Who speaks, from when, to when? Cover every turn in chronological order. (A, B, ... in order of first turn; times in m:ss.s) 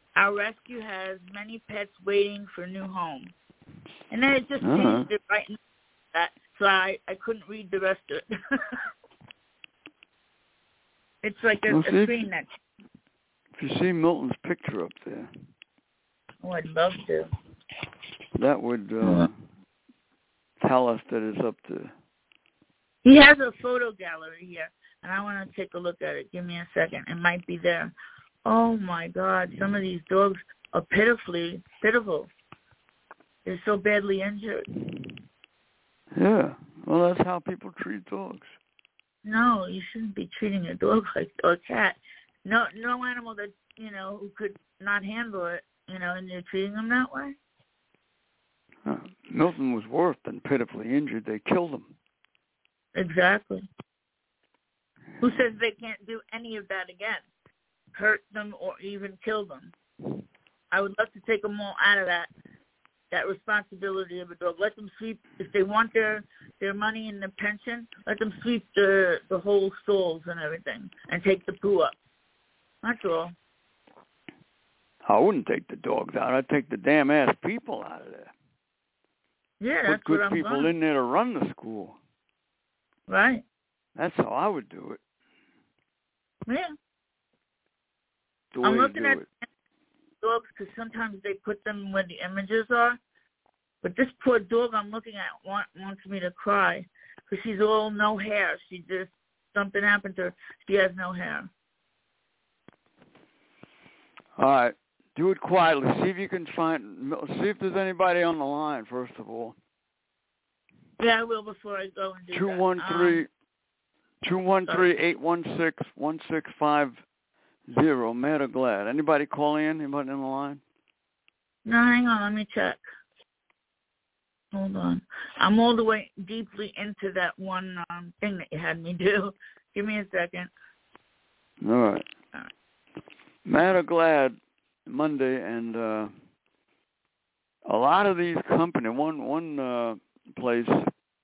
0:00.2-0:03.3 A
0:04.1-0:05.6 A
0:04.6-0:05.1 B
0:06.1-0:08.2 A
0:11.2-0:12.5 A
0:11.7-0:12.2 B
0:13.6-0:15.3 B
0:16.4-0:17.3 A
0:18.4-0:19.4 B
0:19.0-0:19.3 A
0:20.6-0:21.9 B
0:23.0-0:27.9 A
0:28.4-0:32.3 A
0:33.4-0:34.6 A
0:36.1-0:38.6 B
0:39.2-0:47.4 A
0:48.8-0:51.9 B
0:52.9-0:53.6 A
0:55.2-0:57.2 A
0:57.9-0:59.7 A
1:00.7-1:02.3 A
1:03.1-1:12.0 A
1:12.8-1:13.3 A
1:15.0-1:18.3 B
1:19.6-1:20.7 A
1:19.8-1:22.0 B
1:23.1-1:23.4 A
1:24.0-1:25.0 B
1:26.5-1:26.7 A
1:28.5-1:29.3 B
1:28.6-1:29.3 A
1:30.2-1:33.0 A
1:33.8-1:41.5 A
1:44.4-1:49.6 B
1:51.0-1:53.2 A
1:52.3-1:53.3 B
1:54.2-1:57.0 B
1:57.7-2:00.6 B
2:01.6-2:02.8 A
2:04.5-2:10.5 A
2:11.6-2:12.0 B
2:13.4-2:16.1 B
2:17.6-2:20.9 B